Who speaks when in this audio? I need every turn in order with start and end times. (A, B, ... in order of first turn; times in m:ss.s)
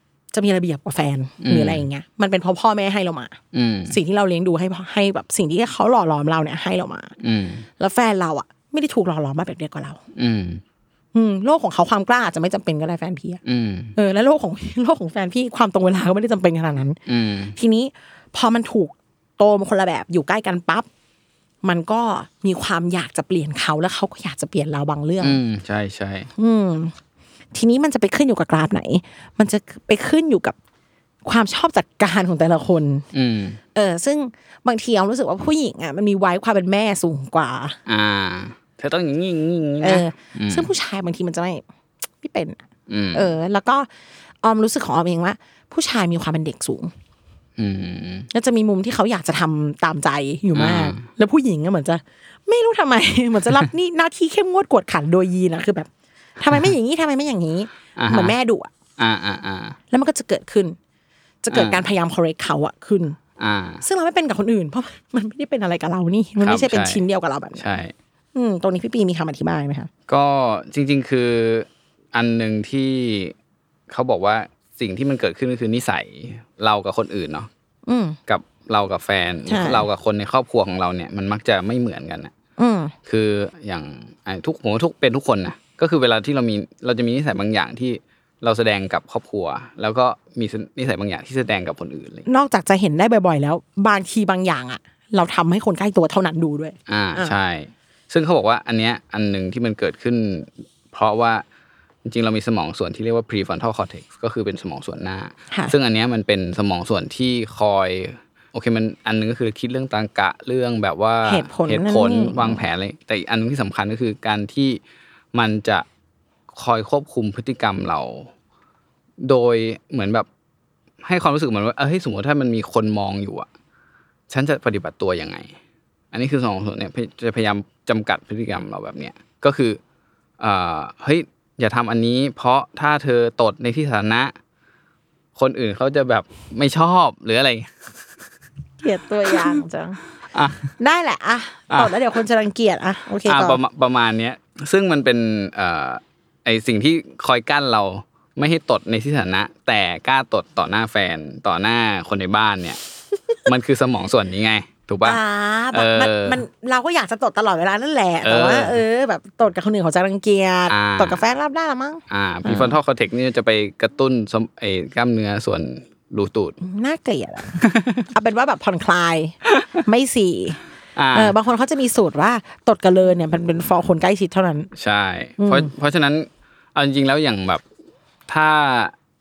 0:00.3-0:03.4 A
0:01.4-0:01.8 B
0:03.5-0:04.0 B
0:03.9-0:07.1 A
0:07.2-0:07.6 B
0:07.8-0:10.0 A
0:10.2-0:10.6 B
0:11.1-0:13.4 A
0:13.4-0:13.9 B
0:13.9-0:17.0 A
0:17.1-0:17.6 B
0:17.6-0:20.9 A
0:21.6-0:25.4 A
0:25.2-0:26.3 B
0:26.4-0:26.9 A
0:27.5-0:30.6 A
0:31.2-0:33.0 A
0:33.1-0:33.6 B
0:33.7-0:37.8 A
0:37.8-0:40.7 B
0:39.8-0:41.6 A
0:42.2-0:42.6 A
0:42.9-0:43.3 B
0:43.1-0:43.9 A
0:44.4-0:46.9 A
0:47.6-0:48.3 B
0:48.3-0:58.7 A
0:50.5-0:51.0 B
0:58.0-0:58.3 B
0:59.0-0:59.8 B
0:59.9-1:00.8 A
1:01.4-1:03.2 A
1:01.5-1:01.9 B
1:03.4-1:03.8 B
1:03.8-1:07.7 A
1:06.4-1:07.0 B
1:07.6-1:07.9 B
1:08.3-1:09.9 A
1:10.1-1:13.3 B
1:13.9-1:17.5 B
1:17.8-1:18.2 A
1:18.3-1:22.3 B
1:19.5-1:19.9 A
1:22.6-1:22.9 A
1:23.0-1:32.2 B
1:32.2-1:37.3 A
1:36.9-1:41.4 B
1:42.0-1:54.8 B
1:45.5-1:45.7 A
1:51.2-1:52.6 A
1:55.3-1:55.8 B
1:56.5-1:58.3 B
1:59.2-2:00.3 B
2:01.0-2:03.5 B
2:04.3-2:05.5 B
2:06.1-2:09.8 B
2:10.4-2:14.3 B
2:15.4-2:17.9 B
2:18.8-2:20.0 A
2:19.3-2:19.6 B
2:20.3-2:20.7 B
2:20.8-2:23.6 A
2:21.7-2:22.0 B
2:23.2-2:32.8 B
2:33.4-2:35.2 B
2:35.0-2:42.8 A
2:35.7-2:36.4 B
2:38.2-2:38.8 B
2:40.7-2:41.2 B
2:42.1-2:46.6 B
2:46.6-2:50.6 A
2:47.6-2:48.0 B
2:51.0-2:51.4 B
2:51.1-2:54.7 A
2:54.7-2:57.6 B
2:55.4-2:55.7 A
2:58.3-2:58.9 B